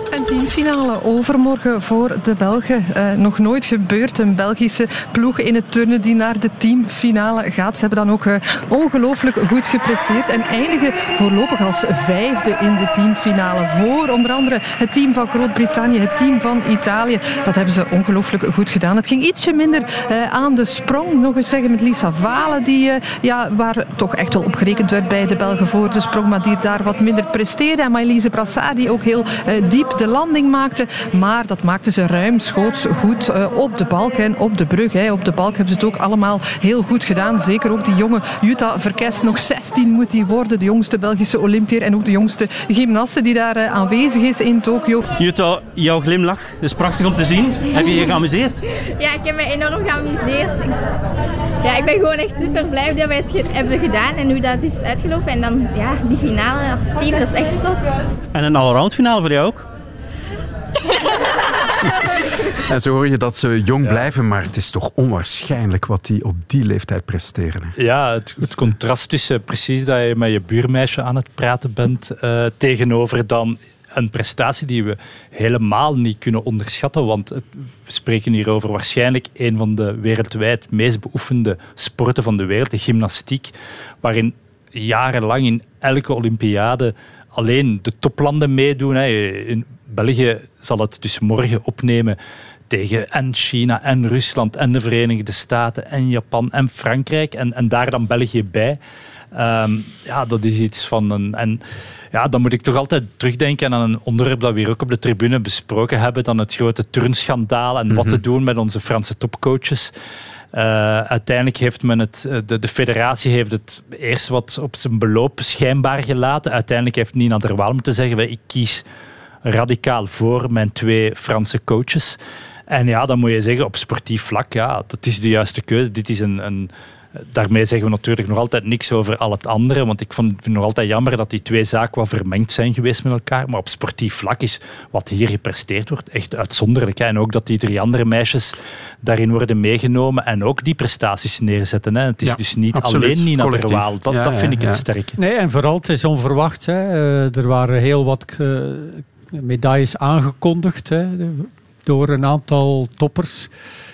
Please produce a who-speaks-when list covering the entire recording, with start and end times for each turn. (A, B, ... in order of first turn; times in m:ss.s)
0:00.1-0:45.0 A
0:45.2-0:48.6 B
0:49.0-0:50.8 C
0:51.6-0:58.0 C
0:58.3-0:59.7 B
1:02.6-1:07.7 D
1:07.8-1:32.2 E
1:32.7-1:38.8 E
1:39.3-1:41.6 E
1:42.1-1:49.9 E
1:47.9-1:48.2 D
1:50.5-1:58.8 E
1:59.4-2:02.2 E
2:02.7-2:25.2 E
2:22.2-2:24.8 D
2:25.2-2:33.5 F